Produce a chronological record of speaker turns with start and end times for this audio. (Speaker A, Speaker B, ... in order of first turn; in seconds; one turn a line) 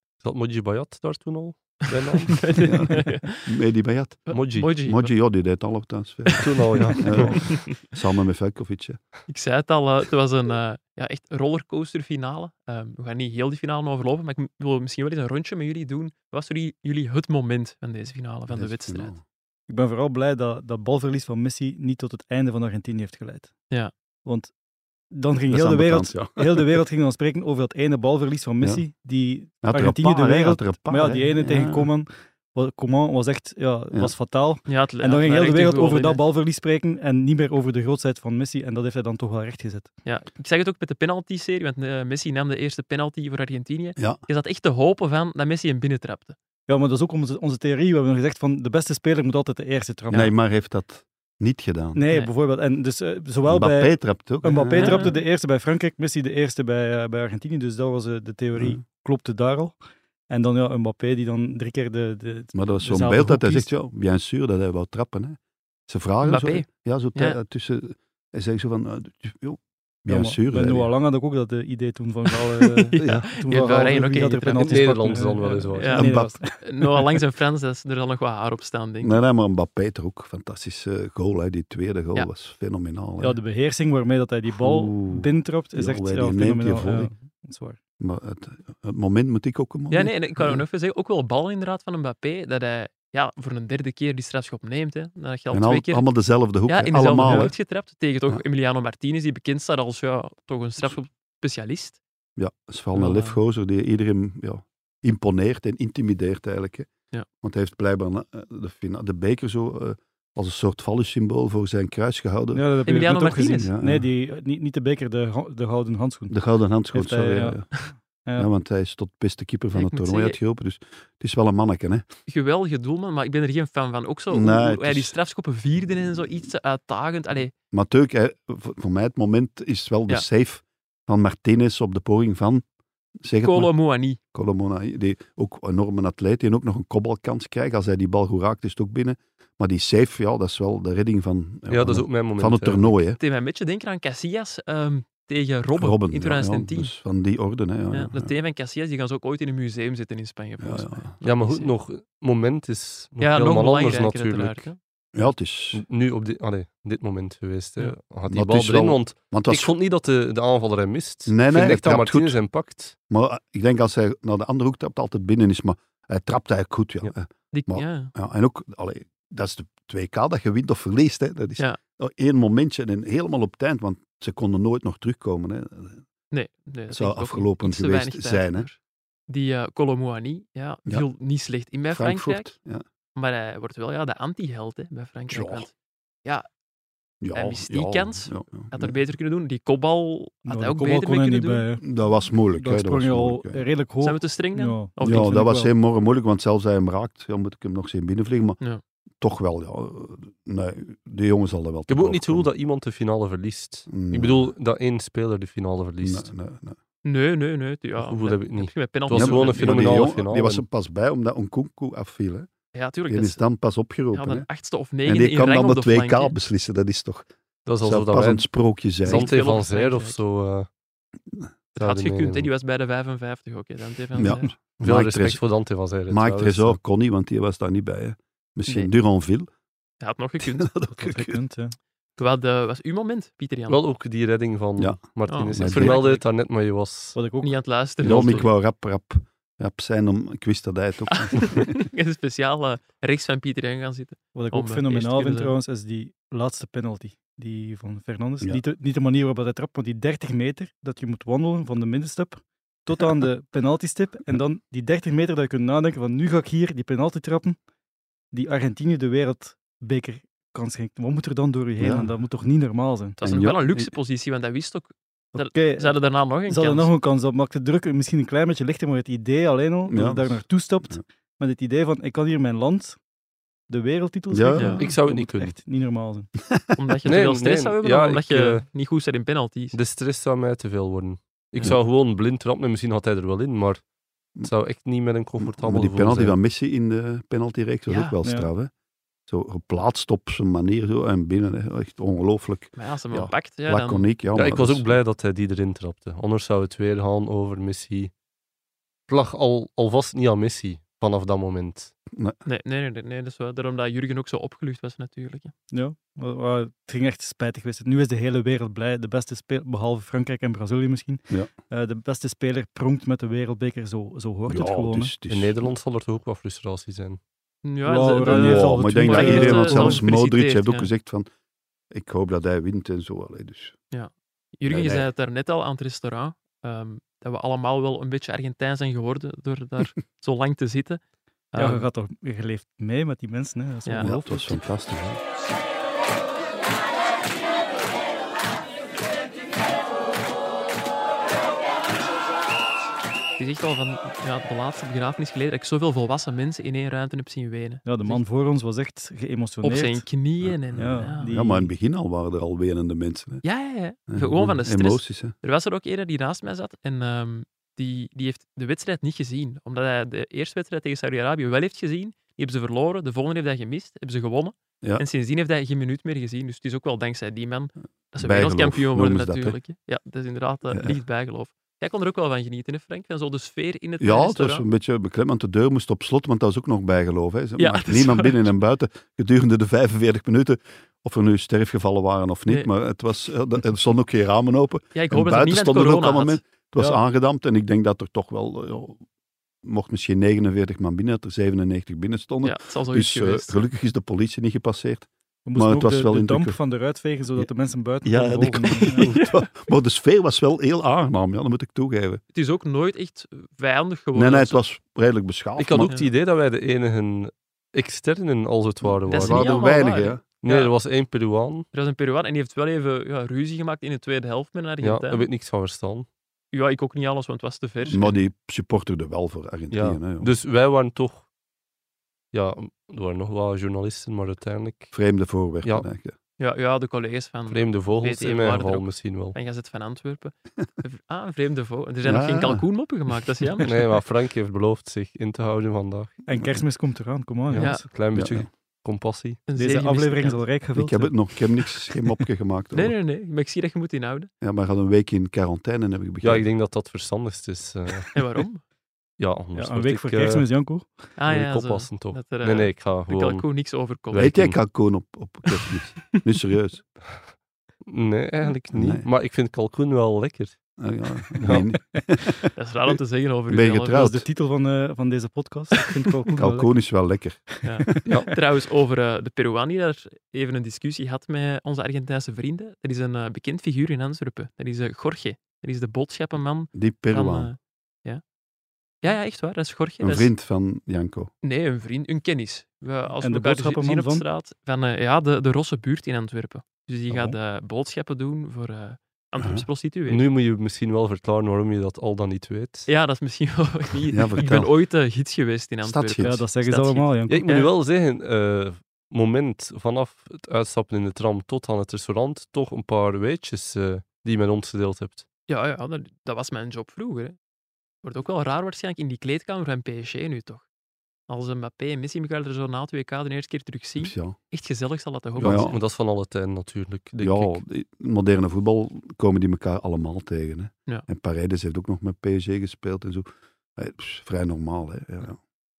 Speaker A: 0.2-2.6
Speaker B: 2.1-3.5
Speaker C: 2.6-9.0
Speaker B: 4.3-5.1
Speaker A: 4.3-4.7
Speaker B: 6.3-7.7
Speaker A: 6.4-7.5
Speaker B: 9.3-19.1
Speaker C: 18.5-19.2
Speaker D: 19.7-23.5
Speaker D: 24.2-24.5
Speaker D: 25.1-39.9
Speaker C: 25.5-26.8
Speaker C: 29.6-31.9
Speaker B: 34.6-36.2
Speaker B: 40.0-46.4
Speaker D: 46.7-50.3
Speaker C: 50.1-52.0
Speaker D: 51.9-59.8
Speaker C: 53.5-55.1
Speaker B: 54.7-55.1
Speaker C: 58.5-58.8
Speaker D: 60.3-63.7
Speaker C: 62.5-70.9
Speaker B: 66.2-67.4
Speaker D: 70.1-77.0
Speaker B: 72.6-75.0
Speaker C: 73.0-73.3
Speaker A: 74.6-76.0
Speaker B: 75.8-76.1
Speaker C: 75.9-76.5
Speaker B: 76.6-79.2
Speaker C: 79.0-83.4
Speaker D: 83.2-87.8
Speaker C: 84.5-87.1
Speaker C: 88.0-90.6
Speaker B: 89.9-96.0
Speaker C: 95.5-97.5
Speaker B: 96.7-102.0
Speaker D: 97.2-97.5
Speaker C: 102.4-106.9
Speaker B: 102.9-103.4
Speaker C: 107.4-112.7
Speaker D: 112.5-116.4
Speaker B: 112.8-113.7
Speaker C: 113.6-114.1
Speaker C: 116.3-117.7
Speaker D: 116.9-118.5
Speaker C: 118.3-122.0
Speaker B: 119.7-120.4
Speaker B: 122.3-127.5
Speaker C: 124.3-125.1
Speaker C: 127.7-132.6
Speaker C: 133.2-133.7
Speaker B: 133.4-134.2
Speaker C: 134.3-143.2
Speaker A: 141.7-143.0
Speaker B: 143.2-146.9
Speaker C: 145.8-148.3
Speaker B: 147.9-151.7
Speaker C: 150.6-151.1
Speaker A: 151.2-154.7
Speaker B: 153.2-155.3
Speaker C: 155.1-155.8
Speaker A: 155.7-162.9
Speaker C: 158.3-159.7
Speaker C: 161.3-162.4
Speaker C: 163.1-176.0
Speaker B: 167.5-168.1
Speaker B: 176.3-178.8
Speaker C: 176.9-178.7
Speaker B: 179.3-182.5
Speaker C: 181.9-182.8
Speaker B: 183.1-185.7
Speaker C: 185.3-185.7
Speaker C: 187.2-188.9
Speaker B: 187.3-191.6
Speaker D: 190.5-191.8
Speaker C: 191.8-193.6
Speaker D: 192.6-195.7
Speaker B: 194.0-195.4
Speaker C: 195.0-198.6
Speaker C: 199.2-202.5
Speaker A: 201.9-206.3
Speaker C: 203.9-204.5
Speaker C: 206.0-206.8
Speaker B: 207.0-210.0
Speaker A: 208.0-210.6
Speaker C: 209.1-212.5
Speaker B: 212.7-213.4
Speaker C: 213.1-214.5
Speaker B: 214.1-216.3
Speaker C: 215.0-217.3
Speaker A: 217.7-218.4
Speaker C: 217.8-219.3
Speaker A: 219.0-220.7
Speaker B: 219.0-220.2
Speaker A: 221.8-222.5
Speaker B: 221.8-224.5
Speaker C: 224.2-225.4
Speaker A: 224.8-226.8
Speaker C: 226.1-229.5
Speaker B: 228.7-228.9
Speaker B: 230.0-230.7
Speaker C: 230.4-231.4
Speaker D: 230.9-231.8
Speaker B: 232.2-233.8
Speaker A: 233.7-237.2
Speaker B: 235.3-236.2
Speaker C: 235.5-236.1
Speaker D: 237.1-237.6
Speaker B: 237.4-238.5
Speaker C: 238.0-241.7
Speaker A: 238.1-238.5
Speaker B: 241.1-245.5
Speaker D: 244.3-257.6
Speaker D: 258.3-263.2
Speaker C: 261.8-262.1
Speaker B: 263.2-266.9
Speaker C: 263.2-263.9
Speaker D: 265.3-273.0
Speaker C: 269.9-271.0
Speaker D: 273.7-276.3
Speaker C: 274.3-274.8
Speaker B: 274.6-274.8
Speaker A: 274.8-275.6
Speaker B: 276.7-279.8
Speaker A: 277.1-278.6
Speaker A: 279.7-283.8
Speaker A: 284.4-286.4
Speaker C: 285.4-288.7
Speaker B: 287.9-288.1
Speaker C: 289.3-294.9
Speaker B: 292.8-294.1
Speaker A: 294.3-298.1
Speaker A: 299.1-301.9
Speaker C: 302.1-302.4
Speaker B: 302.4-305.5
Speaker D: 305.7-315.1
Speaker C: 314.5-315.6
Speaker A: 315.3-317.2
Speaker B: 317.6-320.9
Speaker D: 317.9-320.0
Speaker C: 318.2-321.3
Speaker C: 321.9-323.8
Speaker B: 323.9-331.0
Speaker C: 324.7-325.1
Speaker B: 331.5-331.8
Speaker D: 331.6-334.6
Speaker B: 333.8-334.1
Speaker C: 334.0-335.2
Speaker B: 343.4-348.2
Speaker D: 347.8-350.1
Speaker B: 349.6-351.3
Speaker C: 350.4-353.4
Speaker D: 350.7-351.7
Speaker B: 353.4-374.6
Speaker C: 354.1-355.3
Speaker C: 368.2-369.6
Speaker C: 374.0-389.0
Speaker B: 377.6-378.5
Speaker B: 384.9-386.4
Speaker C: 389.6-396.6
Speaker B: 392.4-393.6
Speaker D: 395.4-399.1
Speaker C: 398.0-402.2
Speaker B: 399.0-399.3
Speaker B: 402.3-404.6
Speaker C: 404.1-405.9
Speaker A: 405.6-409.6
Speaker B: 405.8-406.1
Speaker C: 408.8-410.2
Speaker B: 409.1-410.7
Speaker A: 410.4-411.7
Speaker B: 411.7-415.3
Speaker A: 414.8-416.1
Speaker B: 416.5-418.2
Speaker C: 417.9-420.3
Speaker A: 419.7-421.2
Speaker A: 422.3-424.9
Speaker C: 424.9-426.1
Speaker B: 426.4-433.7
Speaker A: 427.5-429.4
Speaker C: 432.0-432.6
Speaker A: 433.6-436.2
Speaker D: 436.2-437.9
Speaker A: 437.5-439.4
Speaker B: 437.6-437.8
Speaker C: 438.1-438.5
Speaker B: 439.5-440.4
Speaker D: 439.6-441.7
Speaker C: 440.7-442.9
Speaker B: 442.7-444.3
Speaker C: 444.4-446.4
Speaker A: 446.2-448.2
Speaker B: 448.1-448.6
Speaker A: 449.2-450.4
Speaker D: 449.5-451.1
Speaker B: 451.2-454.3
Speaker A: 451.2-453.5
Speaker A: 454.1-454.6
Speaker C: 454.1-456.8
Speaker A: 457.9-460.6
Speaker C: 458.7-459.1
Speaker C: 460.8-463.0
Speaker A: 461.4-461.6
Speaker B: 462.6-464.1
Speaker C: 463.5-464.3
Speaker D: 463.9-466.7
Speaker C: 466.4-468.0
Speaker B: 467.6-478.2
Speaker C: 476.7-477.5
Speaker B: 479.0-480.3
Speaker C: 480.0-481.3
Speaker B: 481.4-490.2
Speaker D: 483.2-484.2
Speaker D: 487.1-487.4
Speaker C: 489.4-489.6
Speaker A: 490.1-492.9
Speaker B: 492.9-497.7
Speaker C: 494.1-494.7
Speaker C: 495.8-496.4
Speaker D: 496.2-497.5
Speaker A: 497.3-505.2
Speaker B: 505.5-507.4
Speaker B: 508.0-510.6
Speaker B: 511.3-515.8
Speaker C: 514.0-514.4
Speaker A: 515.4-517.6
Speaker C: 515.4-515.8
Speaker C: 517.2-525.4